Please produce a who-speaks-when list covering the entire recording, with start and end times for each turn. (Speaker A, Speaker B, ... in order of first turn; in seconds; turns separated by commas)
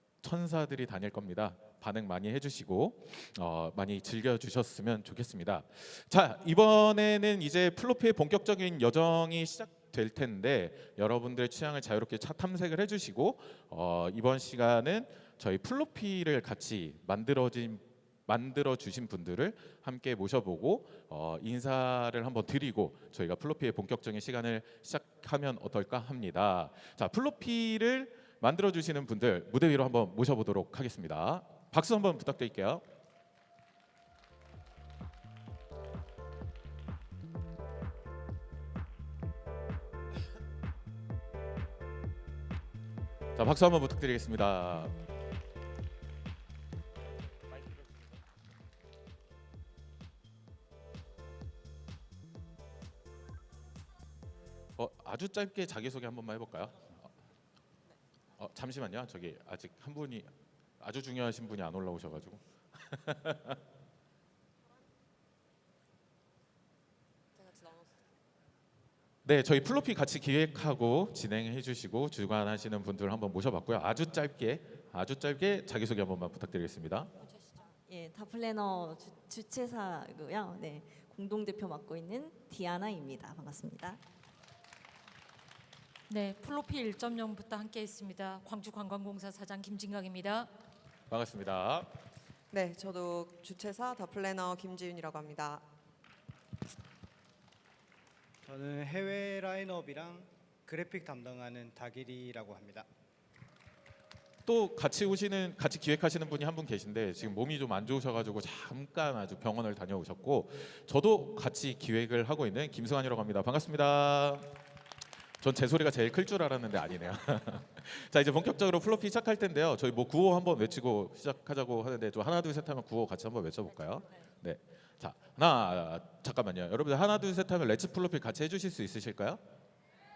Speaker A: 0.2-32.8, Speaker A: 43.4-45.0, Speaker A: 54.8-57.1, Speaker A: 58.4-63.6, Speaker A: 69.2-77.1, Speaker B: 77.9-84.0, Speaker C: 86.1-90.5, Speaker A: 91.1-91.9, Speaker D: 92.5-95.6, Speaker E: 98.4-102.9, Speaker A: 104.5-114.6, Speaker A: 115.4-129.4